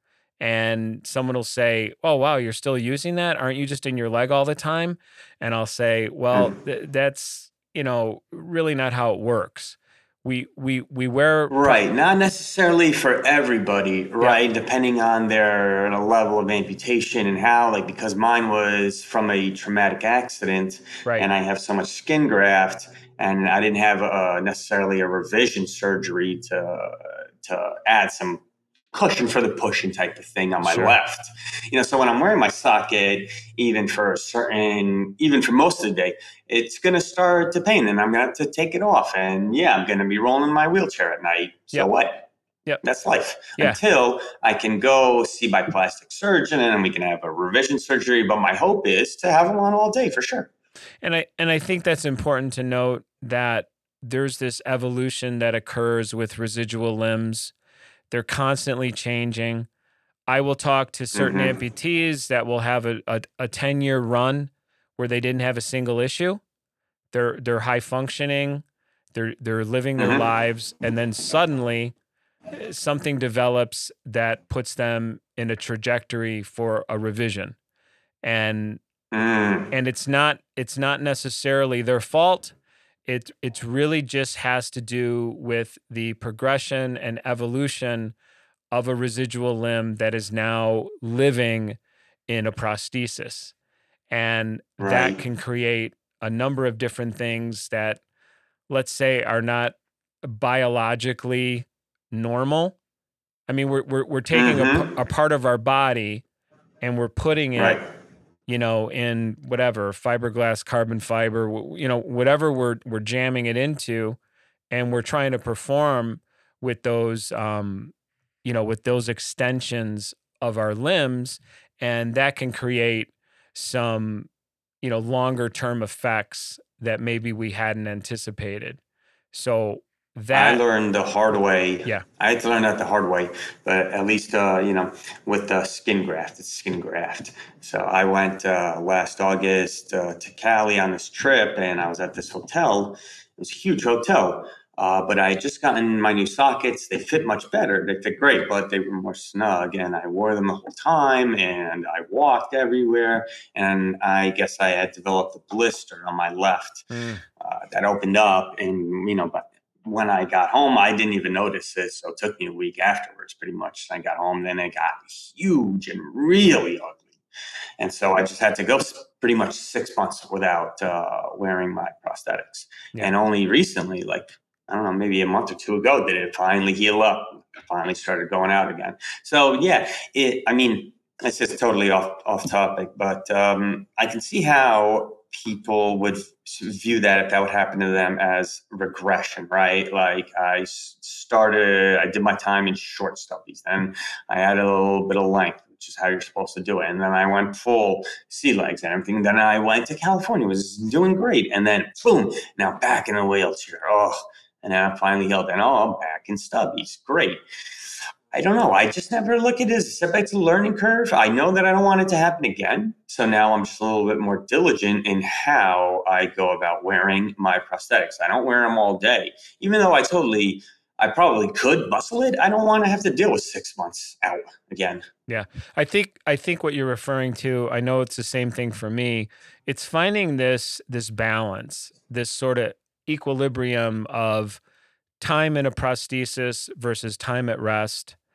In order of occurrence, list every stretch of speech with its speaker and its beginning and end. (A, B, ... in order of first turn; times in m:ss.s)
0:00.4-0:11.8 A
0:11.5-0:28.4 B
0:28.9-0:42.3 B
0:30.6-0:31.0 A
0:42.8-0:50.5 B
0:51.0-0:57.5 A
0:58.1-0:59.7 A
1:00.3-1:06.4 A
1:01.1-1:01.6 B
1:07.1-1:12.0 A
1:10.0-1:10.2 B
1:12.5-1:17.6 A
1:18.2-1:18.8 A
1:19.1-1:19.7 B
1:19.7-1:22.6 A
1:23.1-1:28.2 A
1:28.7-1:33.5 A
1:34.1-1:38.0 A
1:34.8-1:35.2 B
1:38.7-1:42.8 A
1:43.5-1:46.2 A
1:44.3-1:44.9 B
1:46.8-1:47.8 A
1:47.6-1:47.8 B
1:48.5-1:54.2 A
1:54.7-2:04.3 A
2:04.8-2:08.8 A
2:09.3-2:10.6 A
2:10.3-2:36.9 B
2:36.9-2:37.2 A
2:37.4-2:47.1 B
2:47.8-3:27.4 B
3:28.3-3:45.0 B
3:45.3-3:54.6 A
3:55.2-3:58.2 A